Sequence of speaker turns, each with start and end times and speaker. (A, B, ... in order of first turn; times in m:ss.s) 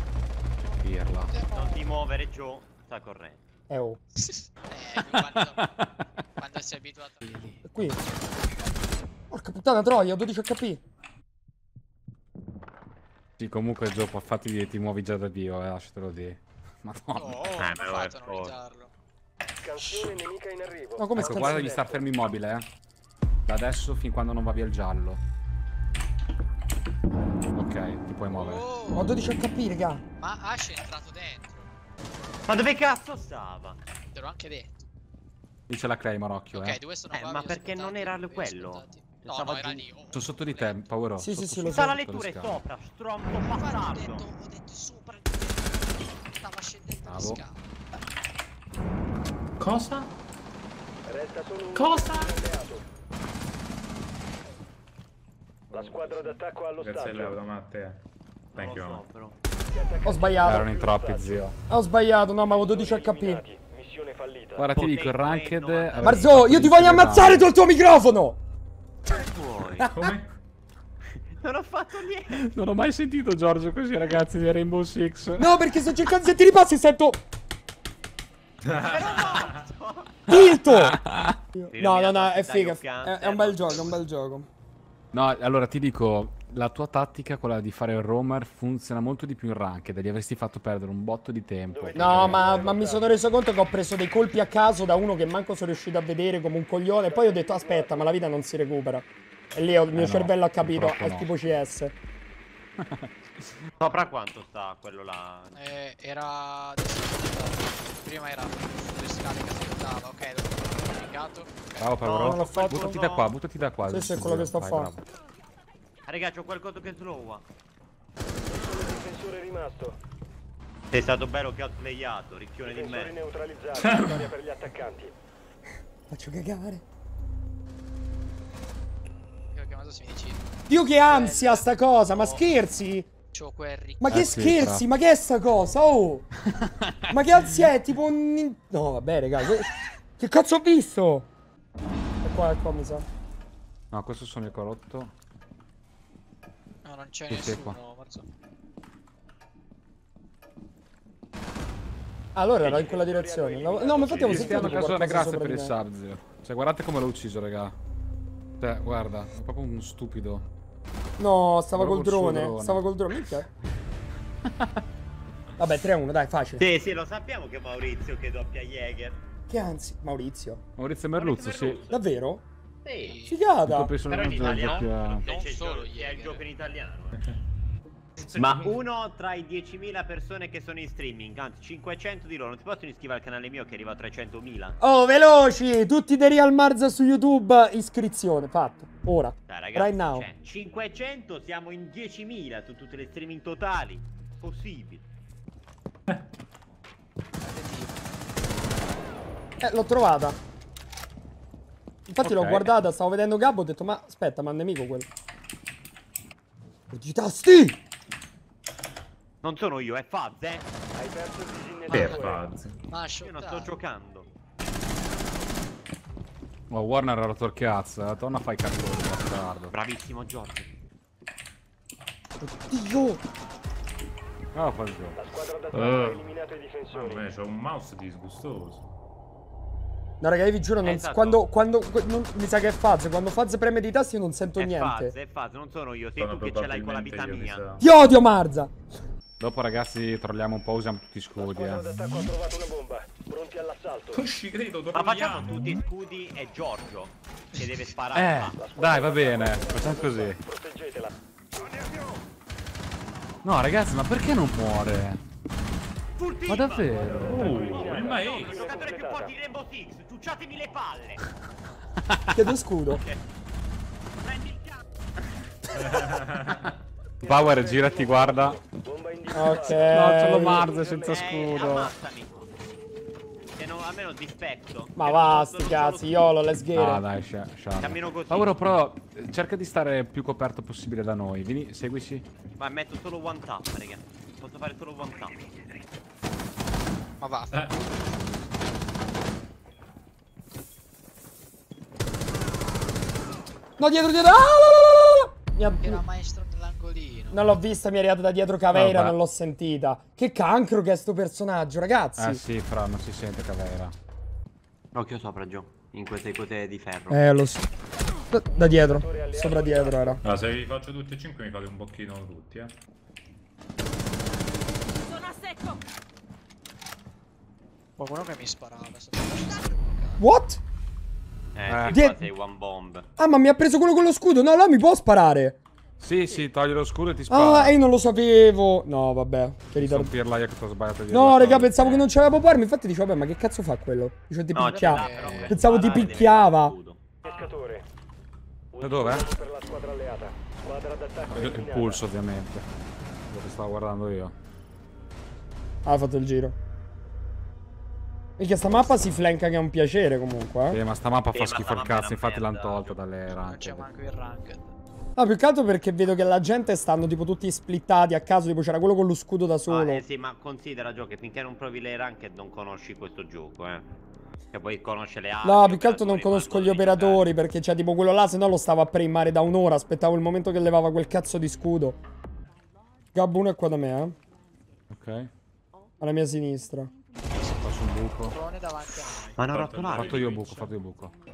0:00.8-0:01.3 A
0:01.3-0:01.9 B
0:01.5-0:03.4 C
0:03.7-0:04.0 D
0:04.2-0:05.7 B
0:05.1-0:05.9 A
0:06.4-0:07.6 B
0:07.6-0:08.0 D
0:09.3-0:10.8 D
0:13.4-0:17.6 A
0:17.2-0:18.9 B
0:17.6-0:18.6 C
0:19.6-0:22.0 E
0:19.8-0:20.1 A
0:21.0-0:21.7 D
0:21.2-0:22.7 A
0:23.5-0:25.2 A
0:27.5-0:28.6 A
0:28.3-0:29.2 B
0:28.9-0:30.0 D
0:30.2-0:31.7 B
0:32.5-0:33.8 C
0:34.1-0:34.9 B
0:35.7-0:36.8 A
0:36.5-0:40.9 B
0:37.1-0:39.8 C
0:40.1-0:42.6 A
0:41.2-0:41.9 D
0:41.7-0:44.3 C
0:43.2-0:47.6 B
0:47.0-0:47.4 A
0:49.6-0:50.1 F
0:51.1-0:52.8 E
0:51.7-0:52.4 F
0:55.7-0:58.0 F
0:55.7-0:57.4 E
0:58.5-0:59.4 C
0:58.6-0:59.0 F
0:59.7-1:01.5 E
1:00.0-1:00.7 D
1:00.4-1:01.6 A
1:01.7-1:03.4 D
1:02.5-1:04.6 E
1:04.6-1:07.5 A
1:04.8-1:06.4 C
1:06.0-1:08.4 D
1:09.1-1:09.9 C
1:09.9-1:10.3 F
1:11.4-1:12.5 C
1:12.3-1:15.6 A
1:15.4-1:17.2 D
1:18.6-1:19.5 F
1:18.7-1:20.4 C
1:20.3-1:21.0 D
1:20.3-1:21.4 A
1:21.5-1:24.5 D
1:21.7-1:24.0 C
1:25.1-1:32.7 A
1:31.7-1:33.1 E
1:31.9-1:41.9 D
1:37.1-1:38.0 E
1:39.9-1:41.3 A
1:42.8-1:43.4 A
1:43.8-1:45.6 C
1:45.6-1:51.5 B
1:51.8-1:55.0 A
1:52.0-1:53.3 C
1:52.1-1:53.0 D
1:53.9-1:54.9 D
1:56.1-1:57.4 C
1:58.5-2:00.0 E
2:00.9-2:03.2 C
2:02.6-2:05.1 E
2:03.8-2:04.2 F
2:06.1-2:06.8 D
2:09.5-2:10.4 B
2:10.7-2:13.1 D
2:11.0-2:12.4 B
2:13.3-2:14.6 B
2:14.0-2:16.3 D
2:14.1-2:14.8 A
2:16.6-2:17.7 A
2:17.1-2:21.3 D
2:22.2-2:23.1 D
2:23.9-2:25.1 A
2:26.8-2:28.3 B
2:27.3-2:27.8 A
2:32.3-2:35.8 D
2:32.7-2:34.7 E
2:34.2-2:34.8 F
2:34.2-2:37.8 A
2:38.6-2:40.4 A
2:41.2-2:43.5 D
2:41.7-2:42.8 A
2:44.4-2:44.7 A
2:45.6-2:46.7 D
2:46.6-2:49.2 C
2:49.5-2:50.6 D
2:50.8-2:51.8 A
2:51.2-2:52.0 C
2:51.9-2:52.4 D
2:52.8-2:53.2 C
2:53.0-2:53.4 B
2:53.3-2:53.9 D
2:53.7-2:55.2 A
2:54.1-2:57.3 C
2:54.5-2:56.4 B
2:58.2-3:04.8 C
3:04.8-3:10.3 D
3:09.5-3:15.0 C
3:17.4-3:18.1 B
3:19.6-3:20.4 D
3:22.1-3:25.1 D
3:22.2-3:22.7 A
3:26.9-3:27.8 D
3:29.4-3:30.7 C
3:31.0-3:32.4 E
3:31.9-3:32.8 F
3:32.9-3:33.7 B
3:33.2-3:34.3 C
3:36.7-3:39.7 A
3:39.7-3:40.7 C
3:42.4-3:43.2 D
3:44.5-3:45.2 A
3:45.2-3:47.2 E
3:45.7-3:46.3 F
3:46.9-3:48.9 F
3:50.2-3:55.2 D
3:50.8-3:51.4 C
3:54.6-3:57.6 C
3:56.2-3:57.8 F
3:57.8-3:58.8 D
3:59.4-4:02.2 A
4:01.4-4:04.2 E
4:04.1-4:05.8 F
4:04.9-4:08.7 C
4:08.1-4:10.4 A
4:08.6-4:11.1 E
4:13.4-4:15.2 A
4:16.2-4:21.2 C
4:16.5-4:17.3 A
4:17.0-4:18.5 F
4:17.1-4:19.3 E
4:22.1-4:22.5 A
4:22.3-4:23.0 D
4:22.9-4:23.2 C
4:24.2-4:24.8 C
4:25.8-4:26.7 F
4:27.2-4:31.3 E
4:27.2-4:28.6 A
4:29.3-4:30.7 D
4:29.7-4:31.9 A
4:31.0-4:32.5 C
4:33.6-4:36.3 C
4:35.0-4:37.0 D
4:36.8-4:42.2 A
4:37.8-4:38.7 C
4:42.6-4:45.4 C
4:47.2-4:48.0 B
4:47.5-4:47.8 F
4:53.8-4:56.0 D
4:55.8-4:57.4 B
4:57.3-5:02.4 D
4:58.7-4:59.2 A
5:02.2-5:03.9 A
5:04.9-5:07.4 C
5:07.1-5:07.7 D
5:08.3-5:10.2 D
5:08.6-5:10.2 E
5:10.2-5:12.8 F
5:18.0-5:20.2 B
5:20.2-5:20.6 D
5:21.6-5:23.1 C
5:21.7-5:22.0 A
5:21.9-5:22.2 D
5:23.2-5:25.6 D
5:26.0-5:27.8 A
5:27.3-5:30.1 D
5:29.8-5:32.1 A
5:31.1-5:36.8 D
5:34.5-5:37.0 C
5:34.7-5:35.7 B
5:35.2-5:35.6 A
5:37.2-5:37.8 E
5:38.8-5:42.0 E
5:38.8-5:39.3 A
5:41.3-5:42.7 A
5:43.3-5:44.3 A
5:45.8-5:46.6 D
5:48.4-5:50.8 D
5:50.7-5:53.9 A
5:51.3-5:53.0 C
5:53.3-5:54.7 B
5:55.2-6:00.0 D
5:59.7-6:03.9 C
6:04.5-6:07.3 C
6:05.4-6:12.0 D
6:13.1-6:14.2 D
6:14.9-6:15.3 A
6:16.0-6:16.9 D
6:17.3-6:19.4 B
6:17.5-6:18.4 A
6:19.4-6:20.2 C
6:19.4-6:20.7 F
6:19.9-6:21.2 A